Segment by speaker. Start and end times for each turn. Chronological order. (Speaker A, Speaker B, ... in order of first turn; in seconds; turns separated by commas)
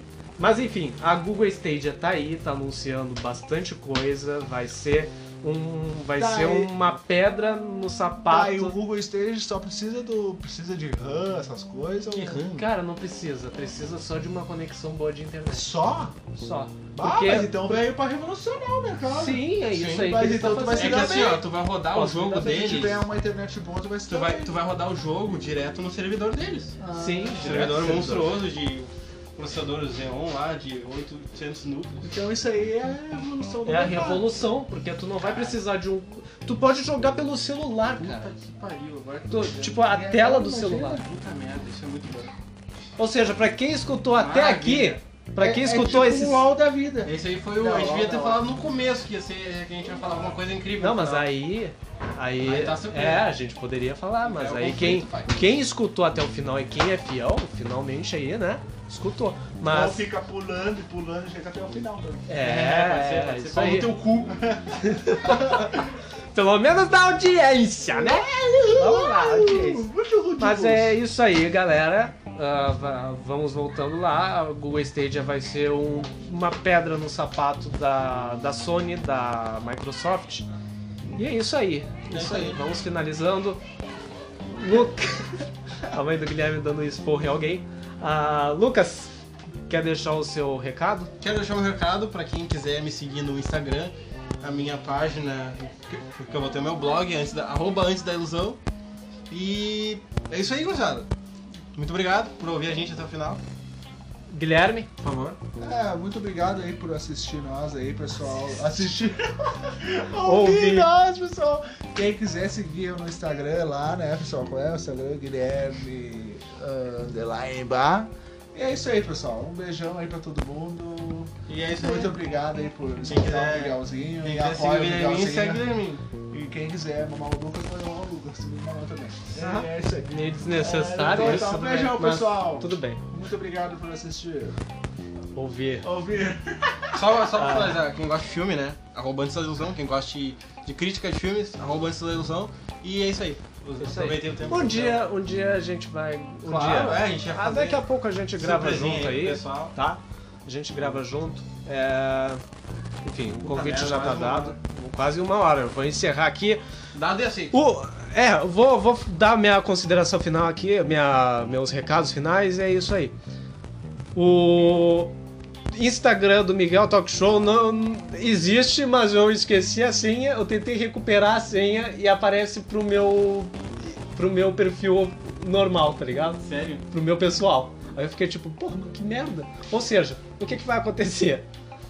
Speaker A: 0.4-8.8, Speaker B: 6.2-6.8, Speaker B: 8.3-12.4, Speaker C: 12.1-12.7, Speaker A: 12.5-15.7, Speaker B: 15.5-16.1, Speaker A: 16.3-17.9, Speaker B: 17.0-24.5, Speaker A: 19.1-21.2, Speaker C: 19.7-20.1, Speaker C: 20.7-23.1, Speaker C: 24.1-26.8, Speaker B: 26.8-28.2, Speaker A: 26.9-28.4, Speaker C: 27.4-32.1, Speaker B: 32.0-34.3, Speaker A: 33.7-38.3, Speaker C: 35.2-35.6, Speaker C: 38.0-39.8, Speaker A: 39.3-41.0, Speaker B: 39.7-41.0, Speaker C: 41.0-42.3, Speaker A: 43.0-46.5, Speaker C: 44.2-45.0, Speaker B: 45.4-48.5, Speaker C: 47.0-51.3, Speaker A: 50.8-60.0, Speaker C: 52.4-53.3, Speaker C: 54.2-55.4, Speaker B: 59.6-62.8, Speaker A: 62.3-63.9, Speaker C: 62.4-64.3, Speaker B: 63.7-65.7, Speaker A: 64.8-69.9, Speaker B: 67.9-71.0, Speaker A: 70.4-80.5, Speaker A: 81.2-83.6, Speaker C: 82.1-82.6, Speaker A: 84.5-89.2, Speaker A: 89.7-91.1, Speaker C: 91.2-98.6, Speaker C: 99.3-101.1, Speaker C: 101.8-103.4, Speaker A: 104.3-104.9, Speaker C: 105.0-105.4, Speaker B: 105.6-125.7, Speaker A: 110.2-110.9, Speaker C: 121.5-122.2, Speaker C: 123.1-126.0, Speaker B: 126.3-134.6, Speaker A: 129.3-133.0, Speaker C: 131.2-131.5, Speaker A: 135.3-135.9, Speaker B: 135.8-137.7, Speaker C: 136.9-145.0, Speaker A: 137.5-137.7, Speaker A: 143.8-152.4, Speaker C: 146.4-147.8, Speaker C: 148.4-149.7, Speaker A: 153.0-156.6, Speaker C: 153.4-154.6, Speaker C: 156.9-157.6, Speaker A: 157.5-163.2, Speaker A: 164.2-165.1, Speaker A: 165.7-181.5, Speaker C: 176.4-176.8